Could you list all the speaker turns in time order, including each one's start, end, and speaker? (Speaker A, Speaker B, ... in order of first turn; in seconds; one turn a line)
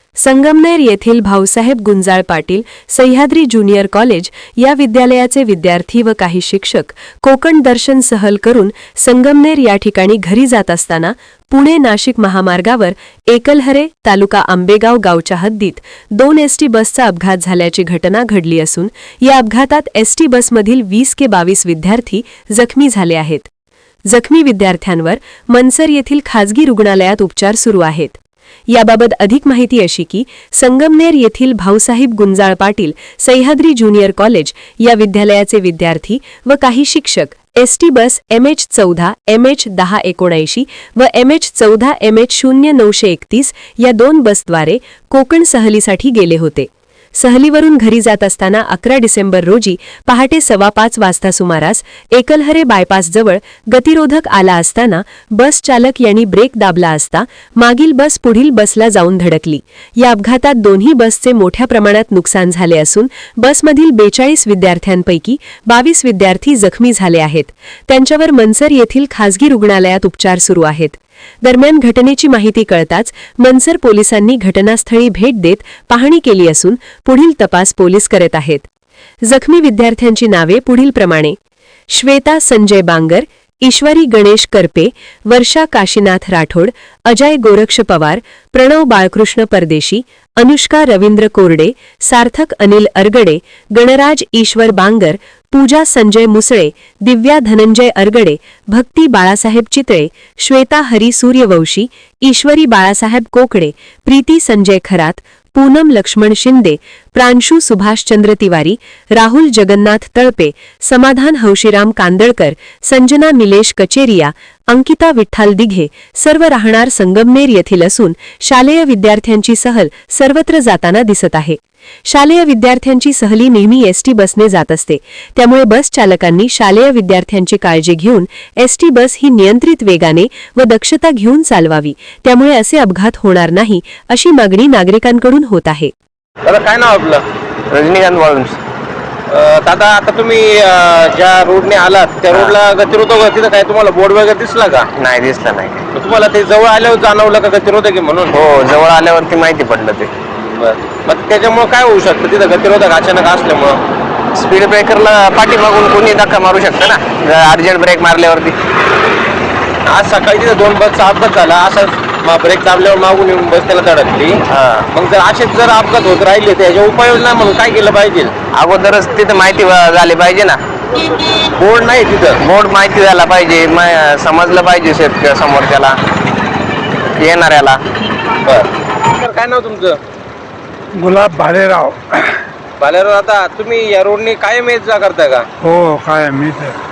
Speaker A: 0.2-23.5
Speaker A: 24.1-78.6
Speaker A: 79.2-81.4
Speaker A: 81.9-135.9
Speaker B: 136.4-137.2
Speaker C: 137.7-138.6
Speaker B: 139.3-144.9
Speaker C: 142.3-142.6
Speaker C: 145.0-145.9
Speaker B: 145.9-148.3
Speaker C: 148.3-150.1
Speaker B: 150.6-153.8
Speaker C: 154.3-158.6
Speaker B: 159.9-168.4
Speaker C: 164.5-164.9
Speaker C: 168.5-170.6
Speaker B: 171.2-172.4
Speaker C: 172.4-176.0
Speaker C: 177.2-177.8
Speaker B: 178.4-180.0
Speaker D: 180.9-182.4
Speaker B: 182.8-185.5
Speaker D: 185.6-186.8